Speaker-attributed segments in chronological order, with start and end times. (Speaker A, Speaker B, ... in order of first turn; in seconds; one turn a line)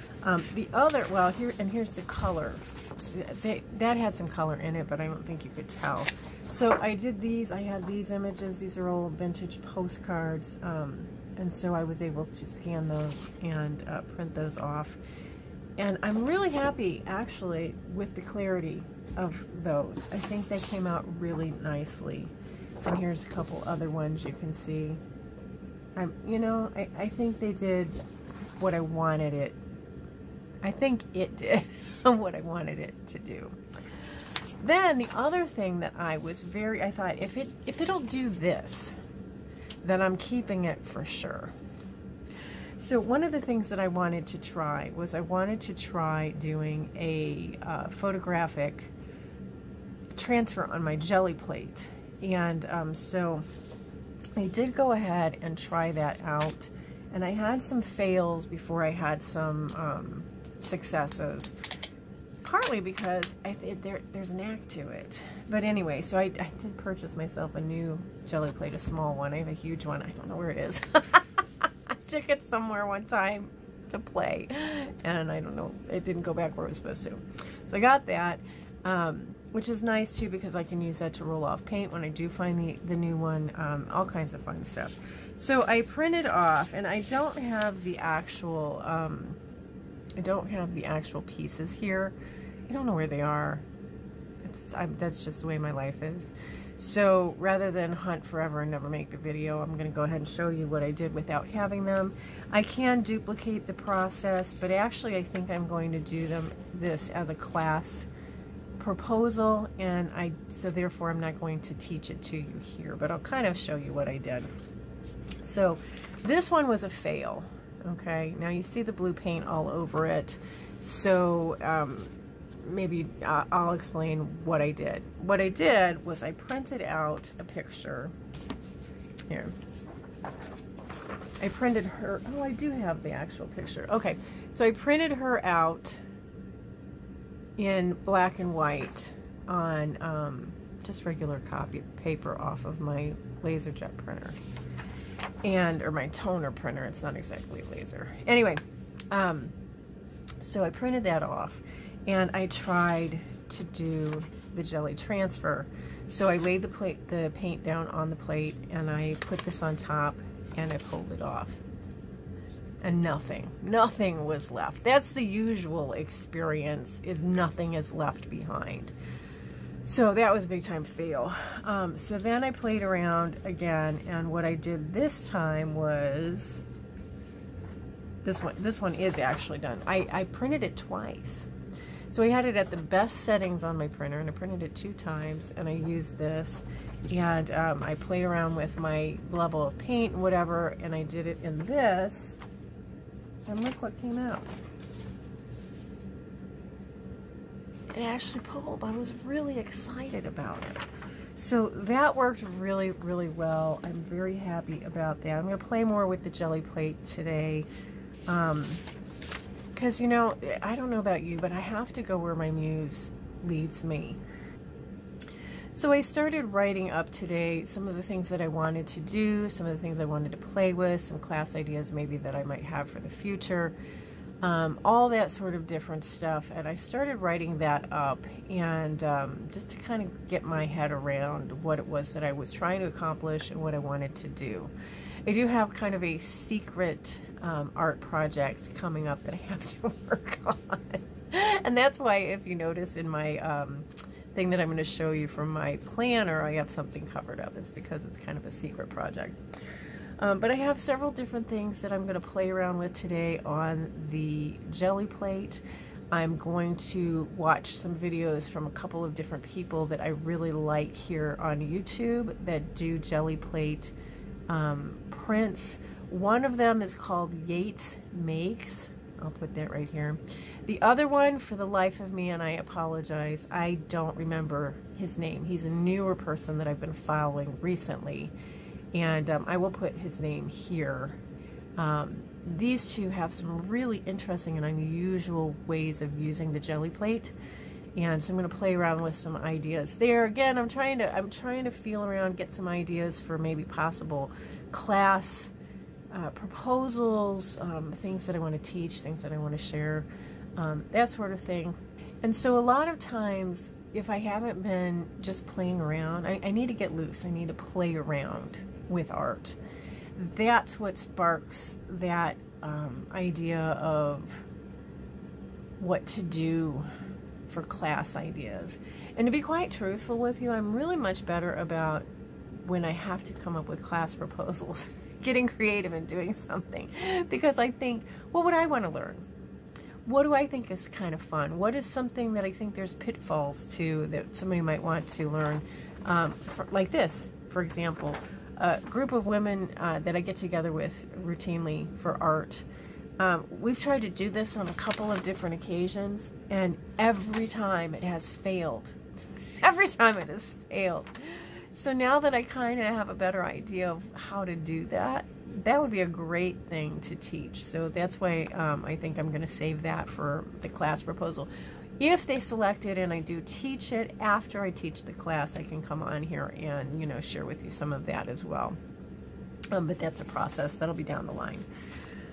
Speaker A: 0.2-15.0
Speaker A: 15.8-25.0
Speaker A: 26.0-28.0
Speaker A: 28.6-29.6
Speaker A: 30.6-34.1
Speaker A: 34.6-39.0
Speaker A: 39.8-41.5
Speaker A: 42.8-48.9
Speaker A: 50.2-53.4
Speaker A: 54.4-61.5
Speaker A: 62.4-89.4
Speaker A: 90.2-92.2
Speaker A: 92.7-93.7
Speaker A: 94.4-108.1
Speaker A: 108.8-114.5
Speaker A: 115.4-128.1
Speaker A: 129.3-129.5
Speaker A: 131.4-136.0
Speaker A: 137.6-144.4
Speaker A: 145.4-149.6
Speaker A: 150.4-161.6
Speaker A: 162.8-168.9
Speaker A: 169.8-176.6
Speaker A: 178.2-181.5
Speaker A: 182.1-192.4
Speaker A: 193.5-194.5
Speaker A: 197.9-200.8
Speaker A: 201.3-207.7
Speaker A: 208.3-208.8
Speaker A: 209.8-214.2
Speaker A: 215.7-223.8
Speaker A: 224.4-234.7
Speaker A: 235.2-249.4
Speaker A: 250.2-263.9
Speaker A: 264.5-278.3
Speaker A: 278.9-281.2
Speaker A: 281.8-287.4
Speaker A: 287.9-295.5
Speaker A: 296.1-309.6
Speaker A: 310.1-314.4
Speaker A: 315.8-316.9
Speaker A: 317.5-329.3
Speaker A: 330.1-342.7
Speaker A: 343.2-349.0
Speaker A: 349.6-368.8
Speaker A: 369.7-371.7